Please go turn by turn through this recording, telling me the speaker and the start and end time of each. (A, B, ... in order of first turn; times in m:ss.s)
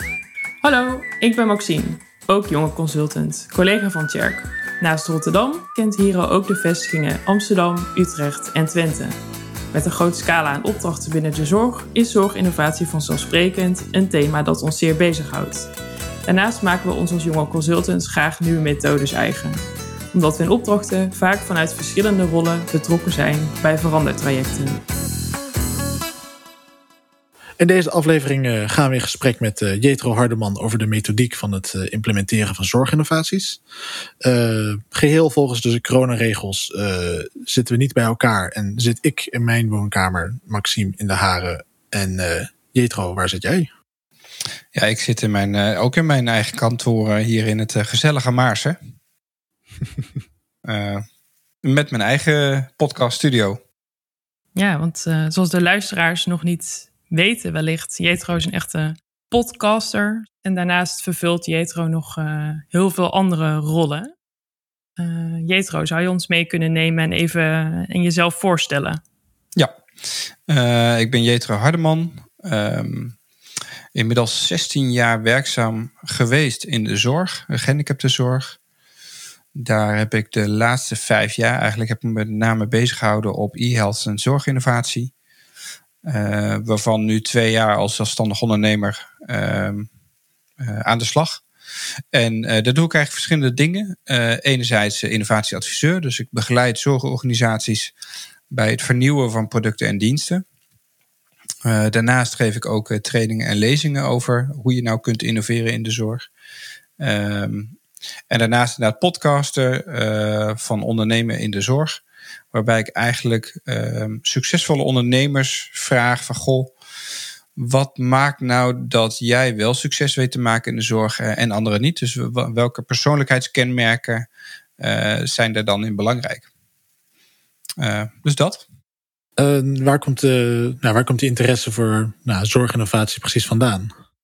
0:00.6-0:09.2 A
0:09.7-0:15.7 A
0:16.2-0:19.6 A
0:20.1-0:24.8 A
0:27.6-0:33.6 B
0:34.2-0:43.7 B
0:44.7-0:48.8 C
0:50.6-0:51.0 C
0:51.6-0:53.6 C
0:54.6-1:04.1 A
1:05.0-1:09.0 A
1:10.5-1:13.2 C
1:13.9-1:18.6 C
1:19.5-1:25.1 C
1:26.0-1:29.9 C
1:30.6-1:31.4 C
1:32.1-1:37.9 C
1:38.5-1:40.4 C
1:41.6-1:46.3 C
1:47.0-1:47.7 C
1:48.3-1:56.7 C
1:57.6-2:04.3 C
2:04.8-2:06.5 C
2:07.8-2:08.6 C
2:09.4-2:13.9 B